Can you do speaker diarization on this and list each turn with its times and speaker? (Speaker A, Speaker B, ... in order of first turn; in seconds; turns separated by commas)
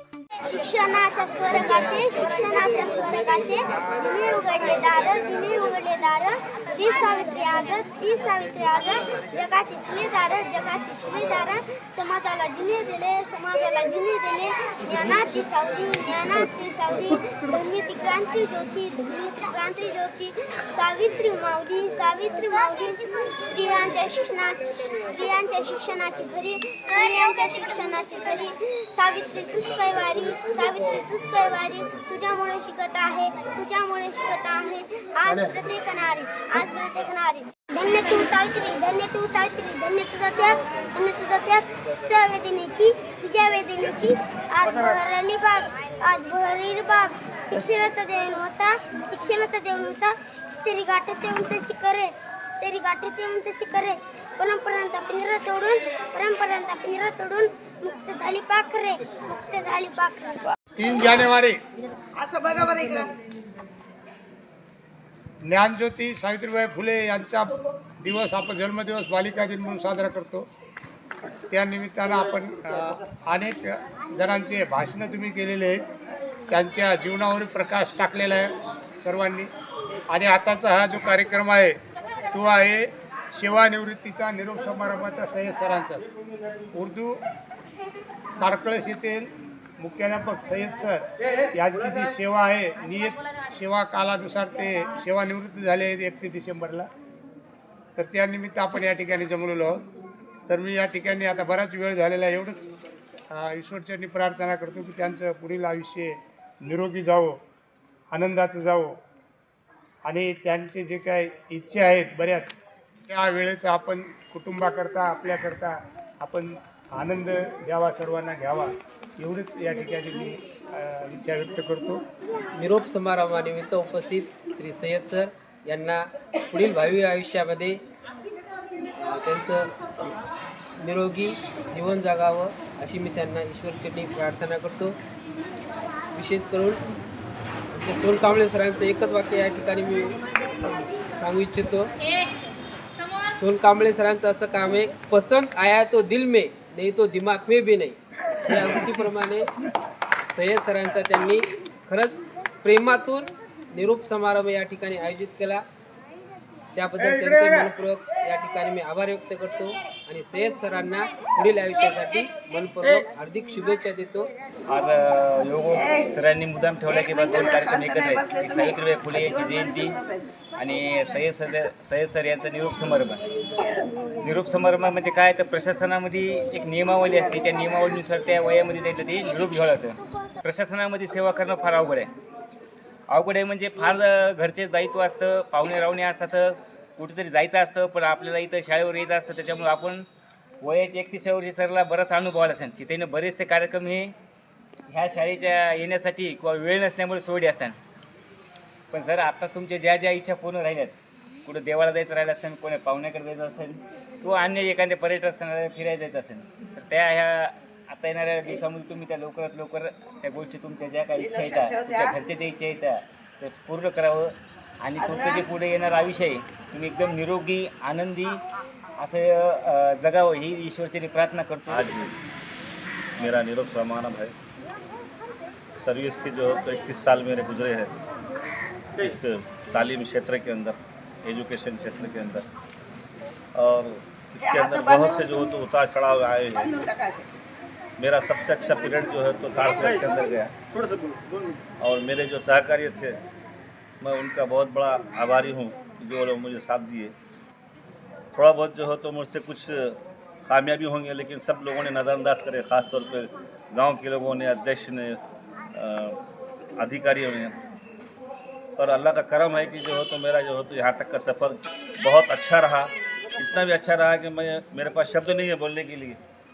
Speaker A: 0.4-60.5, Speaker B: 1.5-4.3, Speaker C: 60.8-61.5, Speaker D: 62.1-63.1, Speaker C: 65.5-67.5, Speaker C: 68.0-70.5, Speaker C: 71.5-75.8, Speaker C: 76.5-79.5, Speaker C: 80.1-81.8, Speaker C: 82.3-86.1, Speaker C: 86.7-87.2, Speaker C: 88.4-96.9, Speaker C: 98.0-99.8, Speaker C: 100.5-102.7, Speaker C: 103.3-107.4, Speaker C: 108.1-109.0, Speaker C: 110.0-112.5, Speaker C: 113.1-122.0, Speaker B: 122.5-127.8, Speaker B: 129.0-129.7, Speaker B: 130.8-135.0, Speaker B: 136.1-136.8, Speaker B: 137.7-141.9, Speaker B: 143.3-149.5, Speaker B: 150.3-155.6, Speaker B: 156.8-164.3, Speaker E: 164.7-170.0, Speaker D: 166.9-170.3, Speaker E: 170.6-173.2, Speaker E: 174.2-182.1, Speaker E: 183.1-190.1, Speaker E: 190.6-194.1, Speaker E: 194.9-197.8, Speaker E: 198.9-218.4, Speaker D: 211.2-212.2, Speaker D: 215.0-215.5, Speaker E: 219.0-222.1, Speaker F: 221.7-222.1, Speaker F: 223.2-224.3, Speaker F: 225.8-227.9, Speaker F: 229.0-232.4, Speaker F: 233.5-236.8, Speaker D: 234.4-235.2, Speaker D: 236.6-237.3, Speaker F: 238.0-240.5, Speaker F: 241.8-243.2, Speaker F: 244.0-247.1, Speaker F: 248.3-255.2, Speaker F: 255.7-256.2, Speaker F: 256.8-257.6, Speaker F: 258.8-266.2